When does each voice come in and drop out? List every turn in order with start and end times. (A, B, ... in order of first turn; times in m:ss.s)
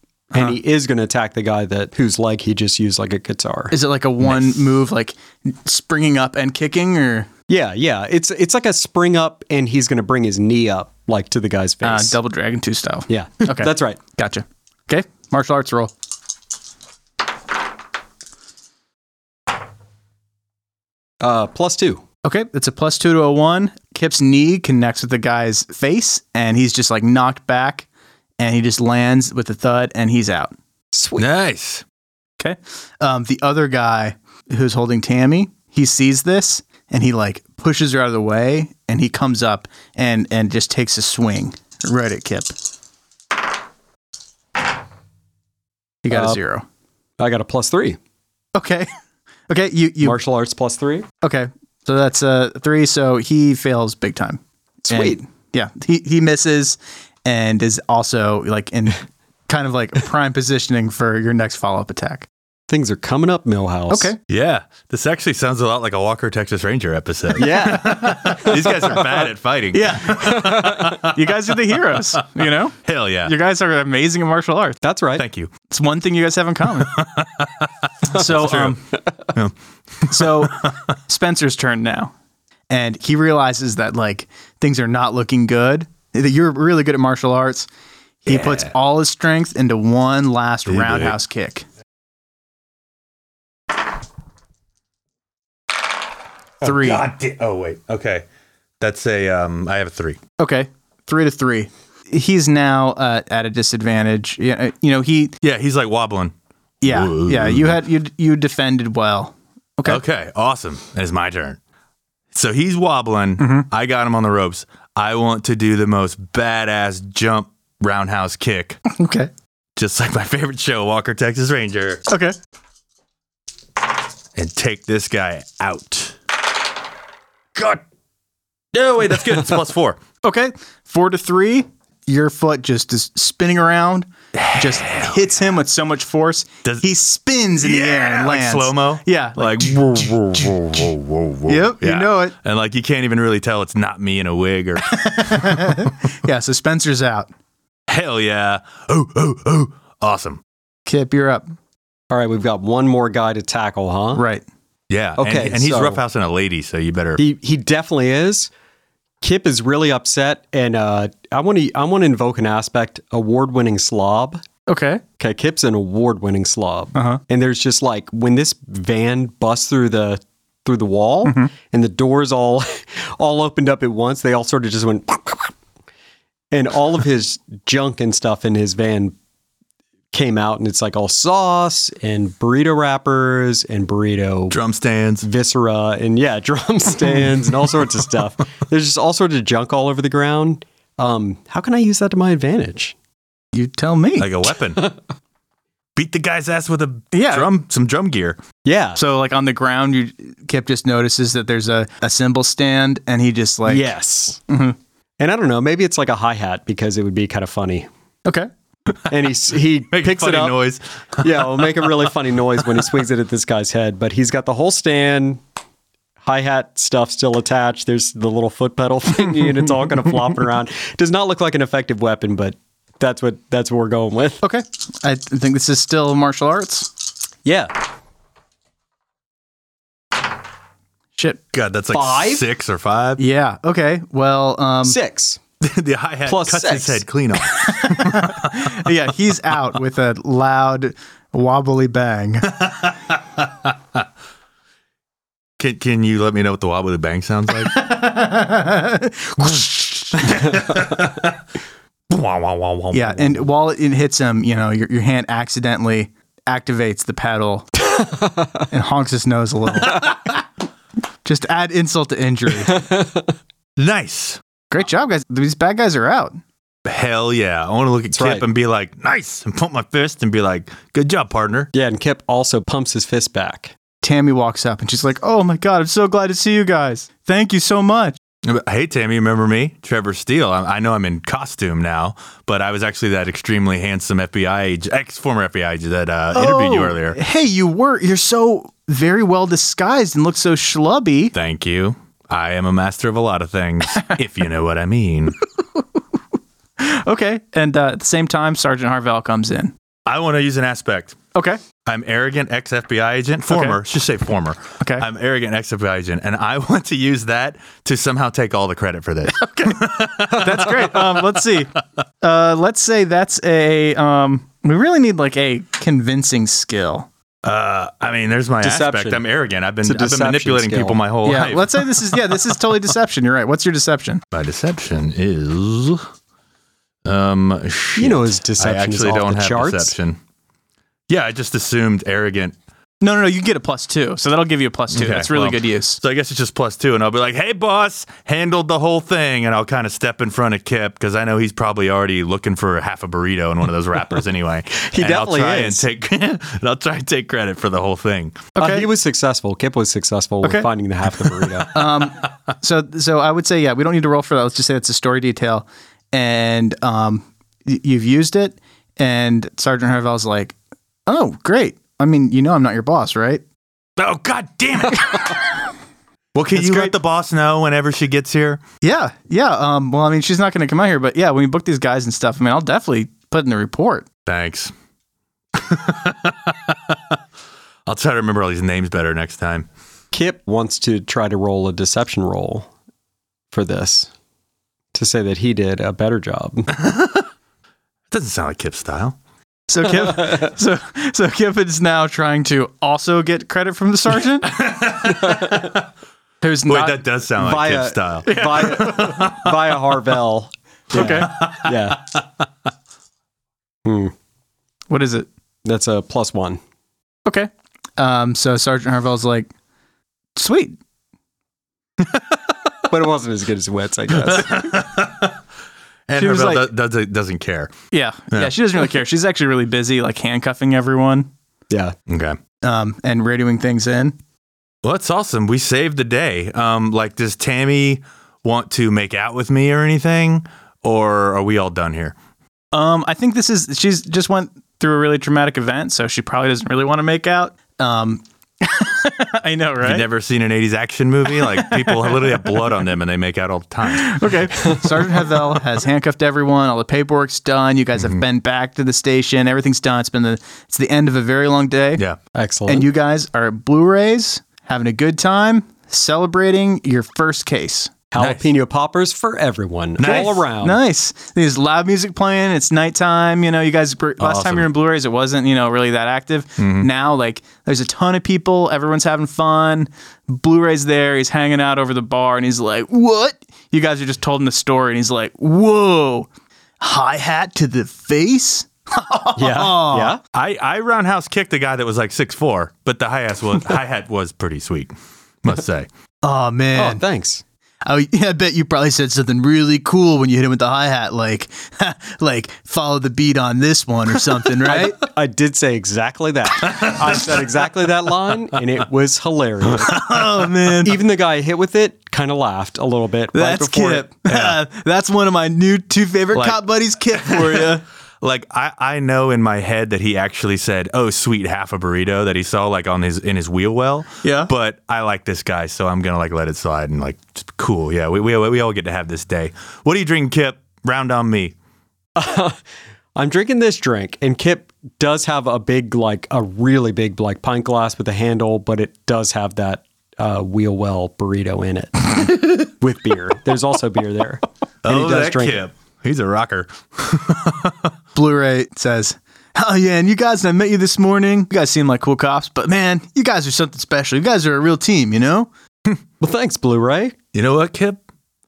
0:00.3-0:03.8 A
0:03.7-0:07.3 B
0:07.5-0:12.2 A
0:11.8-0:15.9 B
0:13.1-0:14.0 A
0:21.2-0:22.0 A
0:22.2-0:27.9 B
0:28.4-0:30.5 B
0:30.9-0:31.3 A
0:31.2-0:31.8 C
0:32.4-0:42.5 B
0:46.0-0:46.6 B
0:46.1-0:46.4 A
0:47.2-0:48.0 A
0:48.6-0:48.9 B
0:49.5-0:50.2 B
0:50.0-0:51.1 A
0:51.2-1:02.3 B
0:54.8-0:55.2 A
1:02.7-1:04.1 A
1:03.9-1:04.2 B
1:04.3-1:11.4 C
1:07.4-1:09.0 A
1:09.7-1:14.8 B
1:12.8-1:13.3 C
1:14.8-1:15.2 A
1:15.2-1:15.5 C
1:15.7-1:17.0 B
1:16.9-1:18.8 C
1:18.1-1:18.8 B
1:19.3-1:20.7 C
1:20.1-1:22.1 B
1:22.7-1:27.7 B
1:28.3-1:31.7 B
1:28.3-1:28.7 C
1:30.7-1:31.2 C
1:36.6-1:37.1 B
1:36.6-1:38.2 C
1:38.8-1:40.2 C
1:40.4-1:45.3 B
1:45.4-1:47.8 C
1:46.8-1:50.0 B
1:49.9-1:51.6 C
1:52.3-1:58.8 C
1:53.4-1:53.7 B
1:58.9-1:59.3 B
1:59.8-2:02.0 C
2:02.1-2:02.4 B
2:04.4-2:06.2 C
2:07.6-2:07.8 C
2:08.7-2:10.0 C
2:10.2-2:20.6 B
2:14.4-2:15.2 C
2:17.6-2:25.8 C
2:21.5-2:22.3 B
2:24.9-2:27.3 B
2:27.9-2:30.4 C
2:30.9-2:31.5 B
2:32.1-2:34.2 A
2:34.2-2:34.4 B
2:34.9-2:37.2 C
2:35.2-2:36.0 A
2:37.2-2:38.5 A
2:39.2-2:44.4 A
2:44.7-2:45.0 B
2:45.2-2:55.6 A
2:47.0-2:47.2 B
2:51.2-2:51.5 B
2:56.5-2:59.2 A
3:00.1-3:04.6 A
3:04.5-3:05.3 C
3:05.2-3:13.0 A
3:13.5-3:14.3 B
3:14.2-3:14.9 C
3:16.0-3:18.4 C
3:17.1-3:17.5 B
3:18.6-3:19.0 A
3:19.0-3:23.9 B
3:23.7-3:24.4 A
3:24.5-3:24.8 B
3:25.2-3:27.9 A
3:29.1-3:30.6 A
3:29.9-3:31.8 C
3:31.2-3:35.4 A
3:36.2-3:44.4 A
3:44.4-3:46.9 B
3:47.4-3:47.7 A
3:51.5-3:53.2 C
3:51.9-3:52.5 A
3:53.2-3:55.0 B
3:54.8-3:55.4 A
3:55.6-3:58.9 C
3:56.3-3:57.0 A
3:57.5-4:02.5 B
4:02.5-4:03.7 C
4:05.6-4:07.8 C
4:07.6-4:10.6 B
4:10.2-4:11.4 C
4:12.1-4:13.5 C
4:12.9-4:17.7 B
4:17.8-4:18.7 A
4:18.7-4:20.1 B
4:21.2-4:22.8 B
4:22.6-4:23.4 A
4:23.8-4:24.4 C
4:24.7-4:26.4 B
4:26.8-4:31.7 C
4:28.1-4:28.5 A
4:31.7-4:33.8 A
4:34.0-4:38.2 B
4:38.4-4:47.2 C
4:46.3-4:51.3 B
4:51.3-4:55.4 C
4:56.8-4:59.7 B
5:00.1-5:01.2 C
5:01.4-5:01.6 B
5:01.8-5:11.2 C
5:03.5-5:03.8 B
5:09.4-5:17.1 B
5:17.4-5:22.2 C
5:18.6-5:19.2 A
5:19.8-5:21.0 A
5:21.2-5:24.2 B
5:24.3-5:26.1 C
5:27.0-5:30.2 C
5:28.0-5:29.9 A
5:31.1-5:32.6 C
5:33.0-5:36.0 B
5:34.9-5:48.5 C
5:44.8-5:45.8 A
5:48.6-5:48.9 B
5:48.6-5:51.8 A
5:50.4-5:50.7 B
5:51.7-6:03.4 B
6:04.0-6:05.5 C
6:06.4-6:08.6 C
6:06.6-6:06.9 B
6:08.8-6:14.1 B
6:14.3-6:14.7 C
6:15.6-6:17.2 C
6:17.9-6:19.7 C
6:20.1-6:22.7 A
6:23.5-6:24.1 A
6:24.9-6:26.7 A
6:26.7-6:27.3 C
6:28.1-6:29.2 C
6:29.7-6:34.5 B
6:34.4-6:35.8 C
6:35.2-6:35.7 A
6:36.4-6:37.0 B
6:36.7-6:39.5 C
6:37.4-6:42.0 A
6:38.3-6:39.3 B
6:40.9-6:41.3 B
6:41.0-6:42.2 C
6:43.8-6:44.1 A
6:44.9-6:45.3 B
6:45.6-6:46.6 A
6:47.3-6:49.5 B
6:50.4-6:50.8 B
6:52.9-6:54.8 A
6:54.2-6:55.4 C
6:56.1-6:57.7 C
6:56.2-6:56.7 B
6:57.9-7:01.3 B
7:01.7-7:02.0 A
7:02.1-7:02.4 C
7:02.6-7:04.2 B
7:04.8-7:12.2 C
7:12.7-7:20.0 B
7:19.8-7:24.3 C
7:21.4-7:22.5 B
7:23.9-7:32.0 B
7:24.6-7:25.0 A
7:32.3-7:32.9 A
7:32.7-7:37.9 B
7:38.1-7:40.8 A
7:38.2-7:38.5 C
7:40.0-7:40.4 C
7:40.0-7:56.3 B
7:44.2-7:44.7 C
7:46.6-7:46.9 C
7:56.8-8:00.2 B
7:59.4-8:00.2 A
8:00.3-8:04.9 C
8:05.4-8:05.9 C
8:06.2-8:07.0 B
8:06.8-8:07.4 A
8:07.9-8:15.0 B
8:14.6-8:20.0 A
8:16.7-8:17.3 C
8:19.9-8:21.0 B
8:20.8-8:24.1 A
8:23.3-8:27.8 B
8:24.3-8:24.6 C
8:27.2-8:27.7 C
8:28.2-8:41.6 C
8:34.2-8:34.5 B
8:42.2-8:42.6 A
8:43.2-8:55.6 A
8:54.8-8:57.9 C
8:58.2-9:05.5 B
9:06.2-9:07.2 A
9:07.3-9:08.0 C